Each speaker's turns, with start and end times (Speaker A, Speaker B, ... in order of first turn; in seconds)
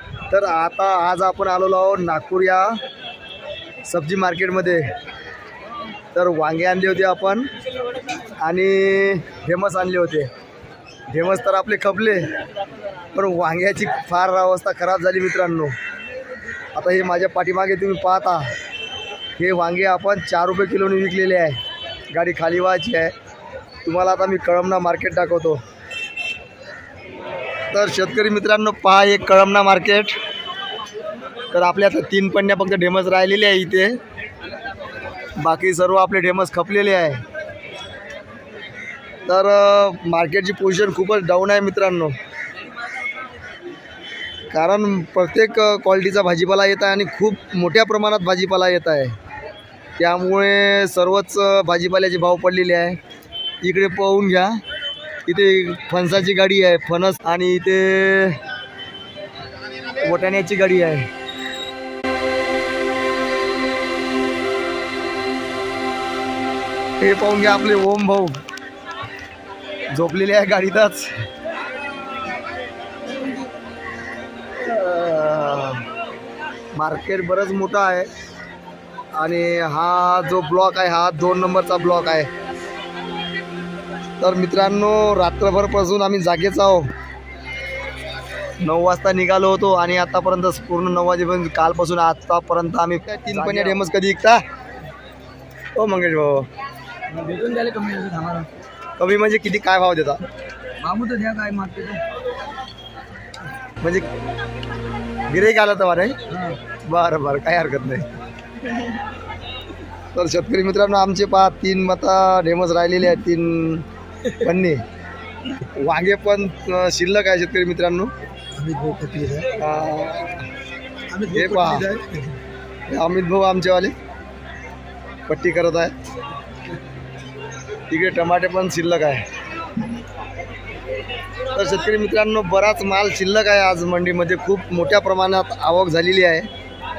Speaker A: 0.3-2.8, 3.9-4.9, 6.1-7.5, 8.4-10.3, 11.1-12.3, 13.1-15.7, 16.7-18.5, 19.4-21.6, 22.1-23.1, 23.8-25.6, 27.7-30.1, 31.5-34.0, 35.4-37.2, 39.2-42.2, 44.5-49.1, 50.0-53.0, 53.6-54.6, 55.2-58.4, 60.0-61.1, 67.0-68.4, 69.9-71.1, 74.6-75.8, 76.7-78.1, 79.2-82.3, 84.2-86.9, 88.6-94.4, 95.7-96.5, 99.0-100.2, 103.8-104.1, 105.3-106.2, 106.8-108.1, 110.1-113.8, 114.4-114.8, 115.5-118.1, 119.5-120.5, 121.3-121.9, 122.9-123.9, 125.3-125.9, 127.9-129.2, 131.5-136.5
Speaker B: 93.3-93.8, 97.1-98.5, 100.8-102.0, 106.3-106.6, 118.6-119.7, 121.1-122.2